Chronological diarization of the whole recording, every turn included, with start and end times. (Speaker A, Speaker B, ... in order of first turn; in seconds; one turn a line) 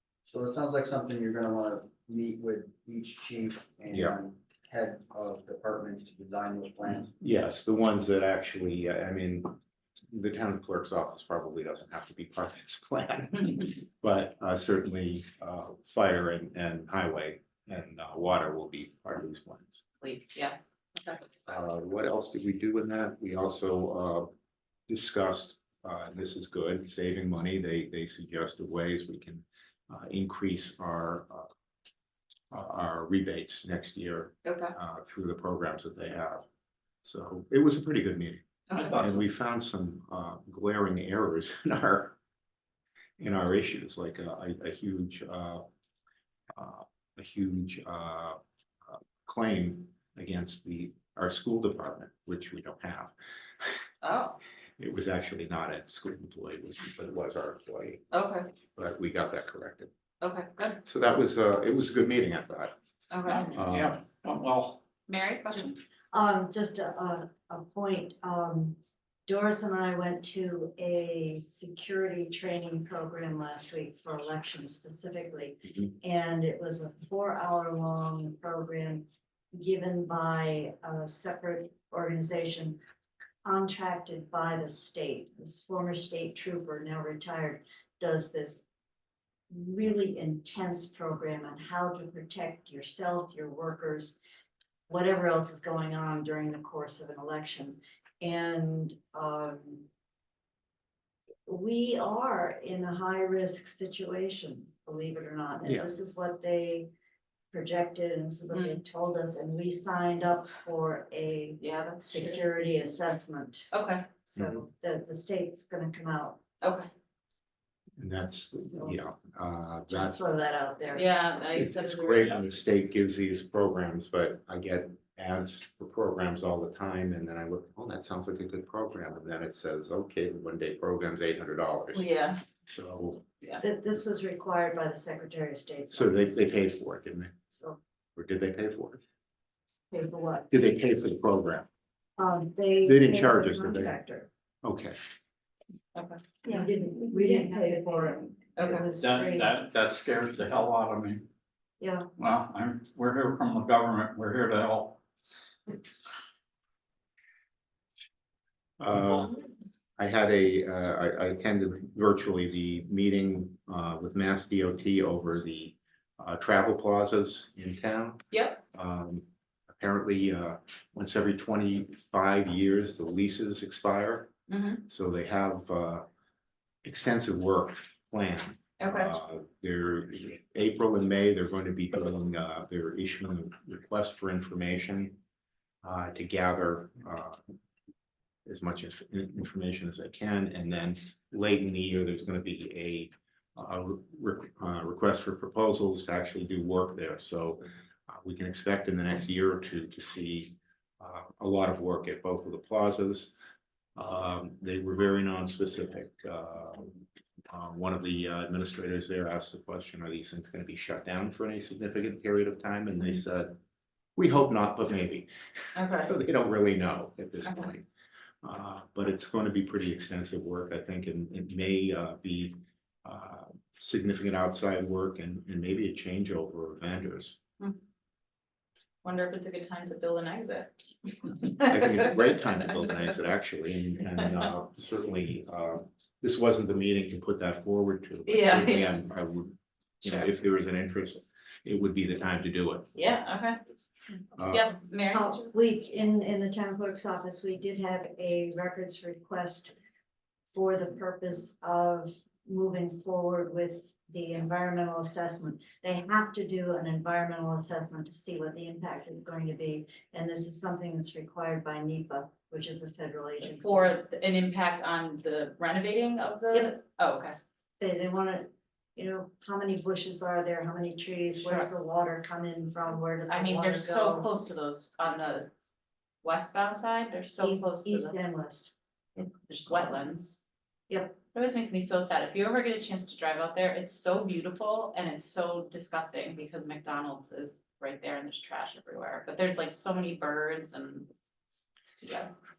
Speaker A: 0.2-7.1
Speaker B: 7.2-9.6
Speaker B: 10.1-19.8
Speaker C: 20.0-21.2
Speaker B: 21.5-24.3
Speaker B: 24.9-31.5
Speaker B: 32.5-36.4
Speaker C: 34.4-34.8
Speaker B: 37.0-42.2
Speaker D: 38.9-39.2
Speaker B: 43.2-45.7
Speaker B: 46.5-53.7
Speaker C: 54.0-54.4
Speaker B: 54.8-58.0
Speaker C: 58.1-58.5
Speaker B: 58.8-59.9
Speaker C: 60.2-60.8
Speaker B: 60.8-62.7
Speaker C: 63.1-63.5
Speaker D: 63.2-64.8
Speaker B: 63.5-64.0
Speaker C: 65.1-65.8
Speaker E: 65.5-82.8
Speaker E: 83.4-88.7
Speaker E: 89.5-94.2
Speaker E: 94.9-99.9
Speaker E: 101.5-106.9
Speaker B: 105.7-105.9
Speaker E: 107.5-113.7
Speaker C: 108.5-108.8
Speaker C: 111.6-112.4
Speaker C: 113.7-114.1
Speaker E: 114.3-116.4
Speaker B: 114.4-114.6
Speaker C: 116.6-116.9
Speaker B: 118.0-120.2
Speaker E: 119.9-121.3
Speaker C: 120.9-122.5
Speaker B: 121.5-132.1
Speaker C: 131.9-132.4
Speaker B: 132.7-133.2
Speaker E: 133.6-136.5
Speaker B: 135.9-137.3
Speaker E: 137.5-137.8
Speaker B: 138.2-139.0
Speaker E: 139.9-140.5
Speaker B: 140.5-141.7
Speaker E: 142.2-144.3
Speaker B: 142.8-144.0
Speaker B: 144.6-145.0
Speaker C: 145.9-148.9
Speaker E: 146.4-149.6
Speaker D: 149.0-151.3
Speaker E: 151.8-152.1
Speaker D: 152.2-155.0
Speaker B: 158.8-159.4
Speaker B: 160.0-174.3
Speaker C: 168.3-168.6
Speaker C: 174.5-174.8
Speaker B: 174.9-176.1
Speaker B: 176.8-185.2
Speaker C: 178.8-179.2
Speaker B: 185.8-187.4
Speaker B: 188.5-203.3
Speaker B: 204.0-206.9
Speaker B: 207.5-213.6
Speaker B: 214.2-215.3
Speaker C: 215.8-216.1
Speaker B: 215.9-217.9
Speaker B: 218.4-227.4
Speaker C: 229.0-232.0
Speaker B: 231.6-242.9
Speaker C: 238.3-239.0
Speaker C: 242.9-243.6
Speaker B: 244.4-244.7
Speaker C: 244.5-245.5
Speaker E: 245.1-249.7
Speaker E: 250.5-264.0
Speaker C: 263.4-267.4
Speaker E: 267.8-274.3
Speaker C: 271.4-271.7
Speaker C: 273.3-275.5
Speaker C: 276.2-278.1
Speaker E: 277.4-278.7
Speaker C: 279.2-280.4
Speaker E: 280.9-281.2
Speaker C: 281.3-291.1
Speaker C: 291.8-292.3